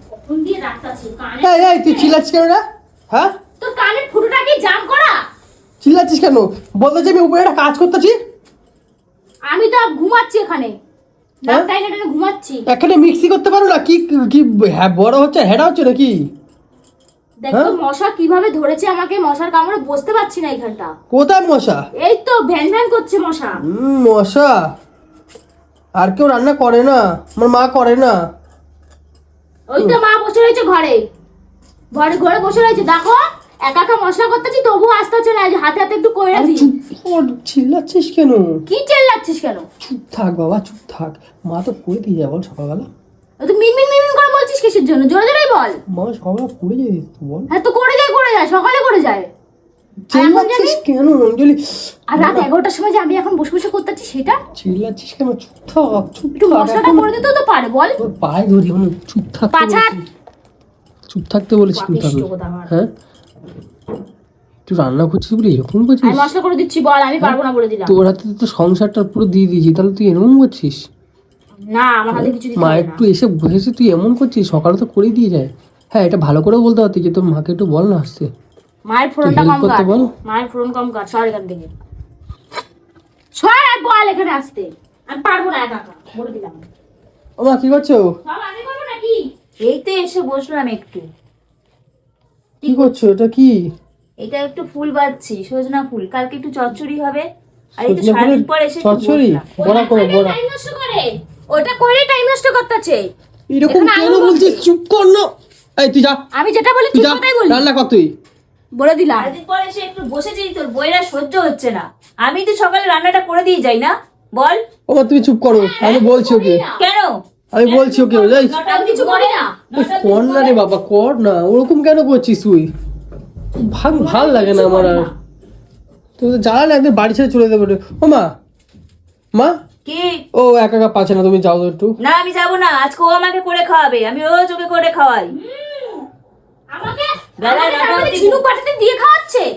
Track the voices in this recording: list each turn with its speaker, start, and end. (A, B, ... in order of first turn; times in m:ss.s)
0:00.2-0:02.1 A
0:01.4-0:03.3 B
0:03.6-0:05.2 A
0:05.8-0:08.2 B
0:09.5-0:10.7 A
0:11.4-0:12.6 A
0:12.7-0:16.2 B
0:17.4-0:20.9 A
0:17.5-0:17.8 B
0:21.1-0:21.8 B
0:22.0-0:23.6 A
0:23.6-0:24.7 B
0:26.0-0:28.2 B
0:29.7-0:31.0 A
0:31.9-0:36.7 A
0:36.3-0:38.6 B
0:38.7-0:39.6 A
0:39.8-0:42.9 B
0:43.4-0:45.8 A
0:45.9-0:47.5 B
0:47.5-0:49.3 A
0:50.1-0:51.6 B
0:50.1-0:50.8 A
0:52.1-0:54.4 A
0:52.1-0:52.5 B
0:54.6-0:57.1 B
0:56.4-0:58.0 A
0:58.0-1:00.0 B
0:59.5-0:59.9 A
1:01.1-1:02.9 B
1:01.7-1:02.7 A
1:04.7-1:06.3 B
1:06.0-1:08.0 A
1:07.2-1:10.8 B
1:11.7-1:13.0 A
1:12.1-1:18.3 B
1:18.9-1:21.7 A
1:19.2-1:20.1 B
1:23.4-1:26.6 A
1:27.4-1:28.0 B
1:28.2-1:29.3 A
1:29.6-1:31.0 C
1:32.6-1:33.6 B
1:34.2-1:37.2 C
1:37.8-1:39.5 C
1:37.8-1:40.4 B
1:39.6-1:43.1 A
1:43.5-1:46.2 B
1:43.7-1:44.6 A
1:46.4-1:47.6 A
1:46.9-1:48.1 B
1:48.8-1:49.3 A
1:49.1-1:54.6 C
1:54.9-1:56.6 B
1:55.5-1:56.8 A
1:56.8-2:00.6 C
1:57.5-1:58.6 B
1:58.6-1:59.6 A
1:59.7-2:02.7 B
2:03.5-2:05.1 B
2:03.9-2:05.1 A
2:06.2-2:08.3 B
2:09.8-2:10.2 C
2:10.3-2:12.0 B
2:12.0-2:15.3 C
2:15.3-2:16.1 A
2:16.7-2:19.5 A
2:17.4-2:18.4 C